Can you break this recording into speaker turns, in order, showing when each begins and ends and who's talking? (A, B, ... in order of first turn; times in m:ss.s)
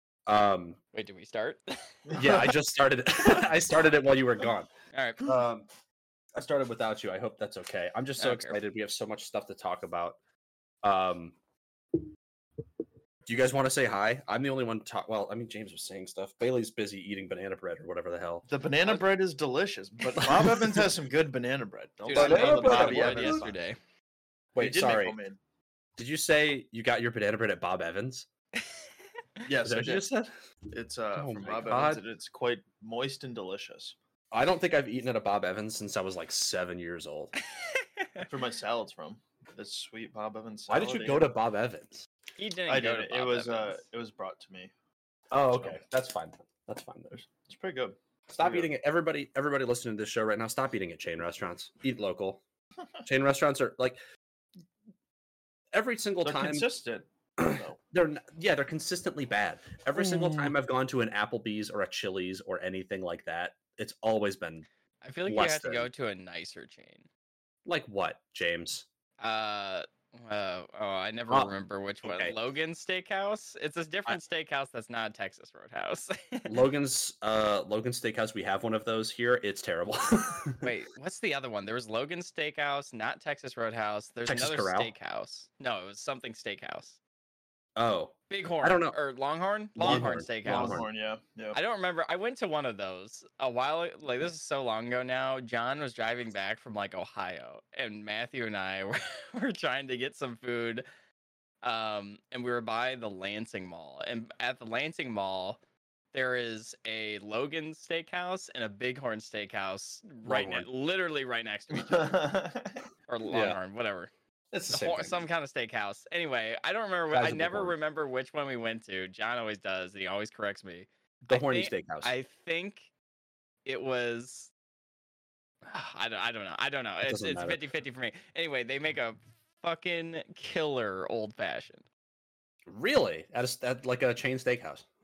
0:00.2-0:00.8 A
0:00.9-0:02.5 B
0:02.2-0:04.7 A
0:04.9-0:05.3 B
0:05.2-0:05.7 A
0:06.4-0:10.2 A
0:08.2-0:08.6 B
0:10.8-0:11.4 A
0:13.3-0:18.5 A
0:18.5-0:23.5 C
0:20.1-0:20.9 A
0:22.0-0:23.8 B
0:22.1-0:23.5 A
0:24.6-0:25.2 A
0:24.6-0:25.4 C
0:26.0-0:28.3 A
0:29.4-0:30.1 C
0:29.6-0:30.3 A
0:30.7-0:34.0 C
0:31.1-0:32.0 A
0:34.3-0:37.3 A
0:37.6-0:38.3 B
0:38.2-0:41.3 C
0:40.7-0:42.1 A
0:42.4-0:43.8 B
0:42.7-0:44.7 C
0:45.3-0:47.2 A
0:45.5-0:45.8 C
0:47.2-0:48.7 C
0:48.3-0:52.4 A
0:53.0-0:54.0 A
0:55.7-0:56.7 A
0:56.2-0:57.8 C
0:57.4-1:04.6 A
0:59.9-1:00.5 C
1:05.0-1:07.0 B
1:05.3-1:05.9 A
1:07.6-1:08.8 A
1:09.2-1:16.5 B
1:11.3-1:12.3 A
1:16.4-1:20.7 A
1:20.6-1:27.0 B
1:24.2-1:24.9 A
1:27.8-1:29.0 A
1:28.3-1:30.8 B
1:29.8-1:30.9 A
1:29.8-1:31.6 C
1:31.5-1:40.8 B
1:41.6-1:45.6 B
1:46.1-1:52.3 B
1:50.2-1:50.7 A
1:51.7-1:52.8 C
1:53.1-1:54.1 B
1:53.3-1:53.6 A
1:54.5-1:55.2 A
1:54.7-2:02.9 B
1:57.1-1:57.8 A
2:01.2-2:02.1 A
2:03.6-2:04.5 B
2:05.6-2:11.8 B
2:07.0-2:07.6 A
2:12.6-2:14.8 A